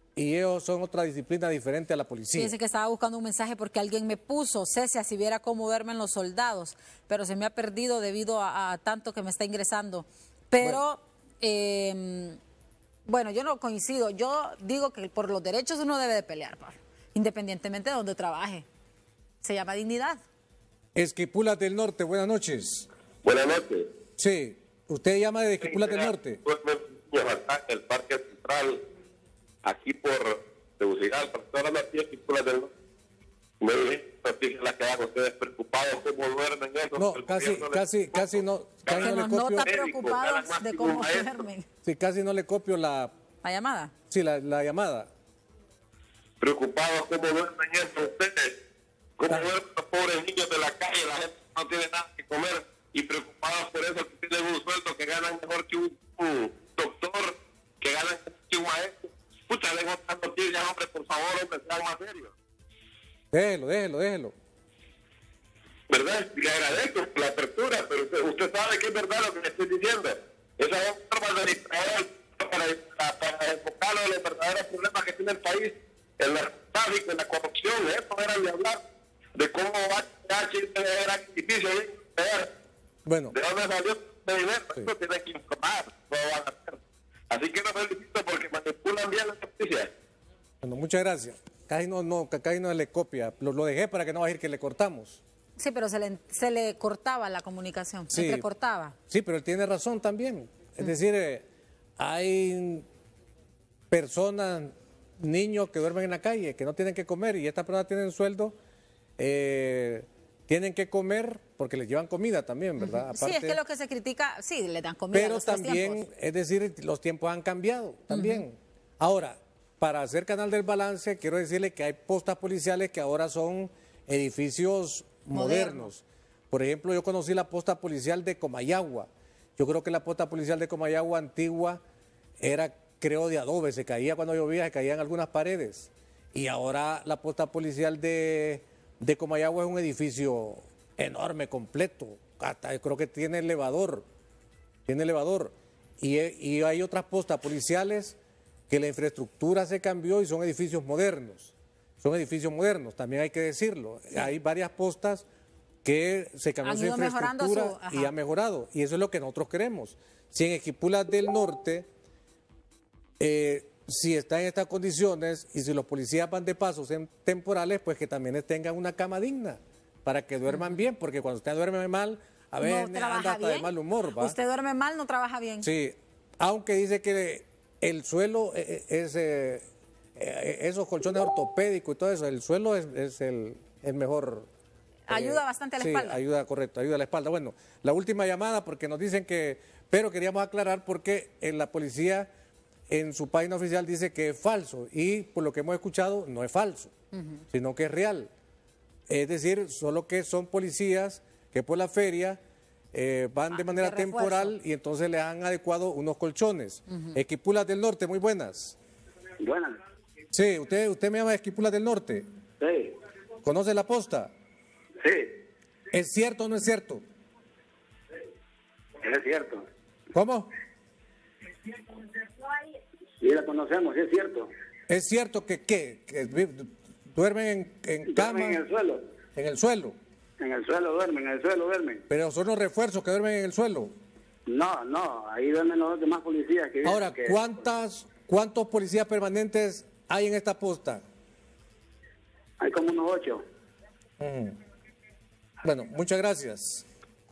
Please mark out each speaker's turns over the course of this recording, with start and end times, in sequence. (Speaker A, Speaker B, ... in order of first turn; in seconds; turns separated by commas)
Speaker A: 0.2-2.6, Speaker B: 2.4-12.4, Speaker B: 13.1-18.7, Speaker B: 19.4-20.2, Speaker A: 20.9-22.9, Speaker C: 23.2-23.9, Speaker A: 24.2-26.4, Speaker C: 25.6-28.8, Speaker C: 29.6-32.7, Speaker C: 33.6-41.4, Speaker A: 37.0-39.7, Speaker B: 38.9-41.7, Speaker A: 41.8-43.1, Speaker B: 43.4-43.9, Speaker A: 44.1-45.1, Speaker C: 46.4-48.6, Speaker C: 49.2-62.3, Speaker A: 63.3-64.3, Speaker C: 65.9-78.8, Speaker C: 79.3-82.5, Speaker A: 83.1-83.3, Speaker C: 83.3-86.8, Speaker C: 87.3-89.9, Speaker A: 90.6-95.2, Speaker B: 95.6-99.0, Speaker A: 98.1-98.5, Speaker A: 99.1-101.5, Speaker A: 102.0-102.9, Speaker A: 103.9-108.6, Speaker A: 109.2-113.6, Speaker B: 112.8-116.0, Speaker A: 115.1-131.8, Speaker B: 118.1-118.4, Speaker B: 125.3-125.9, Speaker A: 132.4-144.1, Speaker A: 144.9-148.2, Speaker A: 148.7-155.3, Speaker A: 155.8-161.9, Speaker B: 156.6-158.1, Speaker A: 163.2-174.4, Speaker B: 170.5-170.8, Speaker B: 172.6-175.7, Speaker A: 175.6-184.5, Speaker B: 185.1-186.2, Speaker A: 185.1-192.3, Speaker A: 192.9-196.9, Speaker B: 197.1-197.4, Speaker A: 197.5-198.3, Speaker A: 199.1-202.4, Speaker A: 202.9-208.8, Speaker B: 203.5-204.6, Speaker D: 209.4-209.7, Speaker A: 210.3-212.3, Speaker D: 212.6-212.9, Speaker A: 213.4-214.3, Speaker A: 215.9-217.0, Speaker D: 219.0-219.6, Speaker A: 220.1-220.5, Speaker D: 223.2-224.5, Speaker A: 224.9-228.6, Speaker D: 228.1-229.0, Speaker A: 229.4-230.0, Speaker D: 230.4-232.0, Speaker A: 232.1-233.9, Speaker D: 234.5-237.4, Speaker A: 236.8-241.0, Speaker D: 242.6-243.4, Speaker A: 244.2-244.6, Speaker A: 245.6-246.9